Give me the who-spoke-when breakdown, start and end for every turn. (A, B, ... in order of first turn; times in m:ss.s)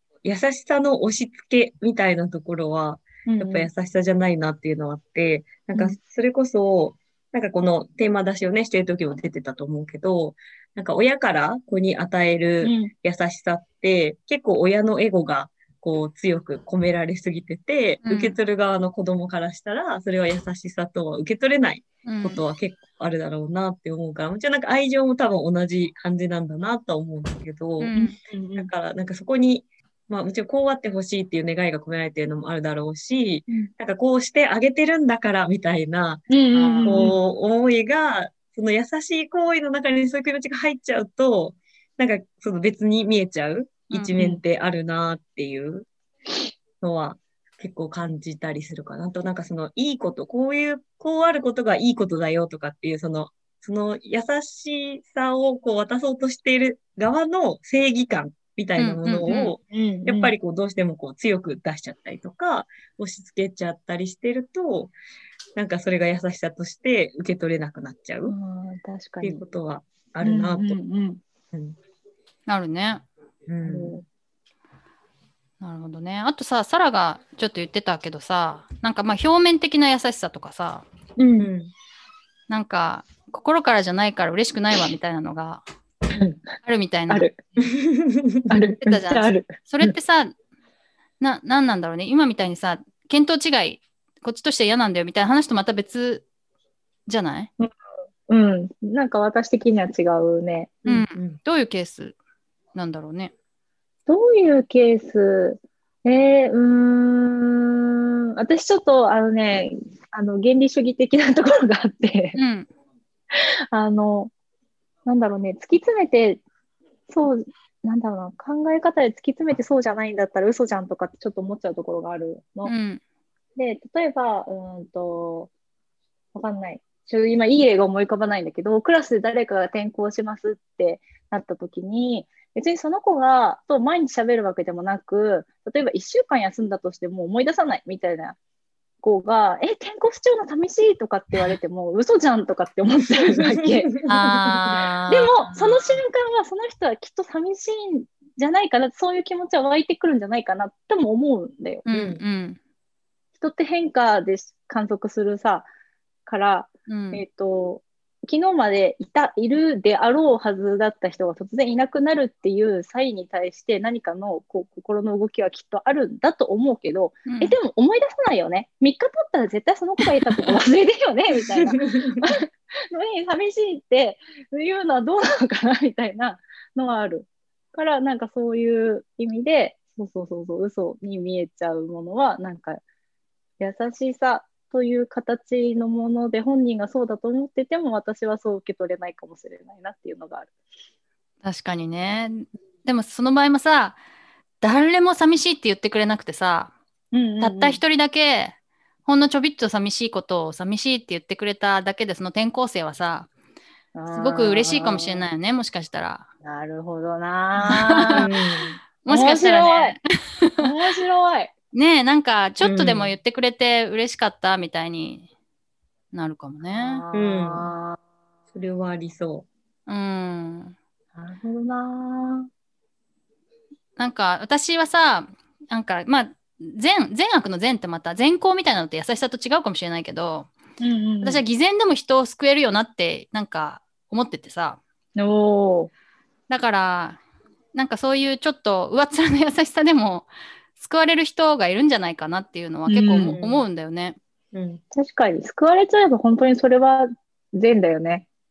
0:00.2-0:27.9 A
0:03.3-0:03.7 B
0:12.6-0:12.9 B
0:18.0-0:18.4 C
0:22.0-0:22.4 C
0:27.8-0:28.2 C
0:27.9-0:28.7 B
0:28.6-0:36.2 A
0:36.3-0:37.2 B
0:36.5-0:37.2 C
0:36.8-0:45.9 A
0:44.2-0:44.4 B
0:46.8-1:04.9 A
0:58.8-0:59.6 C
0:59.7-1:00.3 B
1:05.6-1:08.4 A
1:08.3-1:09.4 B
1:09.2-1:10.8 A
1:10.2-1:11.2 B
1:11.5-1:11.8 A
1:12.5-1:13.0 C
1:13.5-1:14.0 A
1:13.6-1:14.0 B
1:15.6-1:20.9 C
1:21.2-1:21.5 B
1:21.4-1:21.7 A
1:22.5-1:25.6 C
1:26.1-1:26.5 B
1:26.6-1:27.3 C
1:27.6-1:28.5 A
1:28.5-1:30.0 B
1:28.8-1:30.3 C
1:31.2-1:36.3 C
1:37.1-1:37.5 C
1:38.3-1:40.8 B
1:40.9-1:42.2 C
1:40.9-1:41.4 A
1:42.7-1:43.3 C
1:44.1-1:52.4 B
1:52.3-1:52.7 C
1:53.3-1:54.3 B
1:55.0-1:56.4 B
1:57.1-2:02.7 B
2:02.6-2:03.0 C
2:03.6-2:05.5 B
2:06.4-2:18.4 B
2:19.0-2:23.9 B
2:23.3-2:24.8 A
2:24.1-2:25.7 C
2:25.1-2:31.9 B
2:31.9-2:32.6 C
2:31.9-2:32.2 A
2:33.4-2:35.7 B
2:36.3-3:02.8 B
2:36.9-2:37.2 C
2:47.3-2:47.6 C
2:51.6-2:52.1 A
3:03.6-3:10.5 B
3:11.4-3:14.0 C
3:14.6-3:16.7 C
3:17.1-3:17.8 B
3:17.4-3:23.3 C
3:24.0-3:25.3 B
3:24.1-3:26.3 C
3:26.4-3:28.3 B
3:27.6-3:28.2 C
3:28.1-3:28.8 A
3:29.0-3:30.6 C
3:29.1-3:30.0 B
3:30.6-3:31.5 B
3:31.7-3:35.3 C
3:32.6-3:33.1 A
3:36.1-3:37.0 C
3:36.7-3:38.0 B
3:37.1-3:37.7 A
3:38.5-3:39.5 A
3:39.9-3:40.8 C
3:41.2-3:42.5 B
3:44.0-3:50.5 C
3:50.8-3:51.4 B
3:51.2-3:54.8 C
3:55.2-3:55.9 B
3:56.5-3:57.2 C
3:57.7-4:04.2 C
4:02.9-4:03.4 B
4:03.3-4:03.6 A
4:04.5-4:04.8 A
4:04.9-4:08.3 B